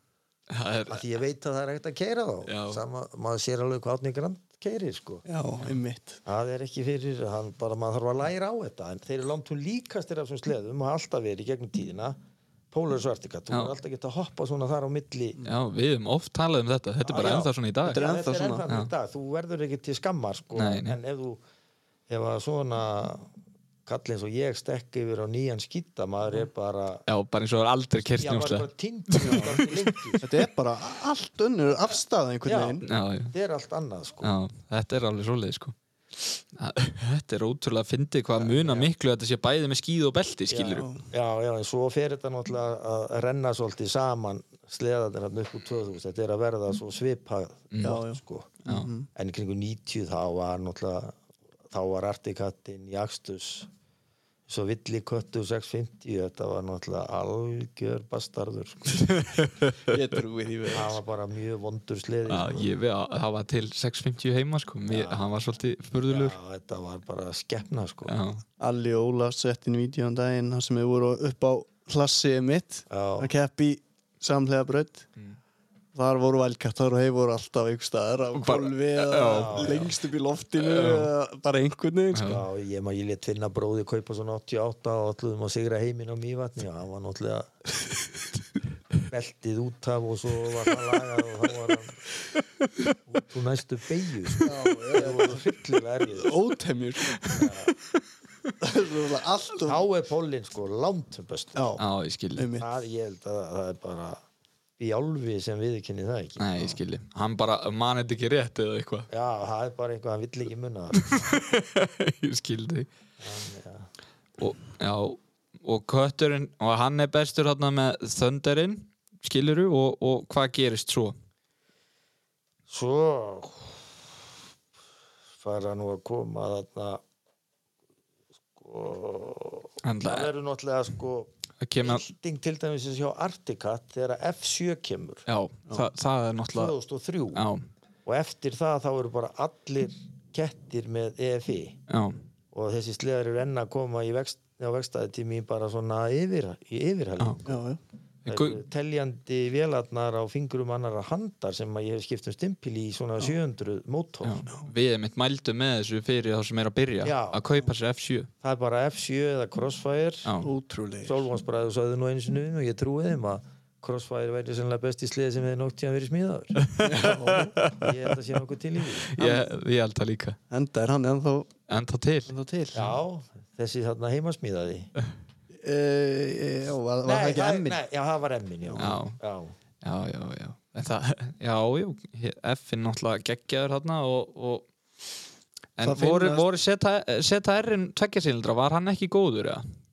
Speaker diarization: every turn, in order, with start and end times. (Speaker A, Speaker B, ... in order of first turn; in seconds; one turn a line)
Speaker A: 0.5-1.1
Speaker B: 0.9-5.2
Speaker A: 2.5-2.8
Speaker C: 5.3-6.2
Speaker B: 6.3-12.2
Speaker B: 12.7-15.4
Speaker A: 15.4-18.0
Speaker B: 17.1-21.4
Speaker C: 17.9-18.7
Speaker A: 20.6-21.0
Speaker B: 22.1-23.3
Speaker B: 23.9-27.0
Speaker A: 27.1-30.1
Speaker B: 28.2-30.3
Speaker C: 29.2-29.6
Speaker C: 30.2-32.9
Speaker B: 32.5-34.3
Speaker A: 32.8-33.3
Speaker A: 34.2-35.8
Speaker A: 36.4-40.9
Speaker B: 38.4-38.9
Speaker B: 40.5-48.6
Speaker C: 40.8-41.0
Speaker A: 47.7-48.0
Speaker C: 47.8-49.1
Speaker B: 49.1-51.2
Speaker B: 51.7-53.7
Speaker B: 54.5-59.1
Speaker A: 58.9-60.0
Speaker C: 59.9-61.0
Speaker B: 60.7-62.7
Speaker A: 62.3-66.4
Speaker B: 64.9-65.3
Speaker B: 66.1-68.2
Speaker A: 68.0-68.4
Speaker C: 68.6-75.1
Speaker B: 72.9-73.3
Speaker C: 76.0-82.3
Speaker A: 78.3-79.9
Speaker B: 79.3-79.9
Speaker A: 80.6-81.1
Speaker A: 82.1-82.4
Speaker B: 82.2-87.5
Speaker B: 89.1-92.0
Speaker B: 93.1-96.4
Speaker C: 94.4-95.5
Speaker C: 96.1-97.4
Speaker B: 97.3-97.7
Speaker C: 98.6-99.8
Speaker B: 99.6-101.7
Speaker C: 101.6-101.8
Speaker A: 101.8-102.5
Speaker C: 102.4-102.7
Speaker B: 102.6-104.2
Speaker B: 104.8-106.7
Speaker A: 106.4-109.1
Speaker B: 109.1-111.0
Speaker A: 110.9-112.9
Speaker B: 113.2-113.9
Speaker A: 114.4-121.2
Speaker B: 122.7-124.0
Speaker B: 125.4-127.0
Speaker B: 128.6-135.2
Speaker A: 129.8-130.3
Speaker A: 131.6-132.0
Speaker A: 135.3-136.7
Speaker B: 136.5-137.4
Speaker A: 137.3-137.7
Speaker B: 138.1-141.8
Speaker A: 141.9-142.2
Speaker B: 142.5-147.6
Speaker C: 147.5-147.8
Speaker A: 148.2-148.6
Speaker B: 148.3-154.4
Speaker A: 154.2-158.3
Speaker B: 157.0-157.4
Speaker B: 158.4-160.3
Speaker A: 160.3-160.5
Speaker C: 160.4-161.2
Speaker B: 161.0-166.6
Speaker A: 166.6-168.0
Speaker C: 166.8-167.6
Speaker B: 167.8-169.2
Speaker A: 169.1-170.4
Speaker C: 169.2-169.5
Speaker C: 170.5-171.5
Speaker A: 171.7-172.3
Speaker C: 172.3-172.9
Speaker B: 172.7-174.9
Speaker C: 175.6-177.8
Speaker B: 177.1-179.5
Speaker A: 178.8-179.2
Speaker A: 179.8-184.7
Speaker A: 185.8-189.7
Speaker C: 185.8-186.5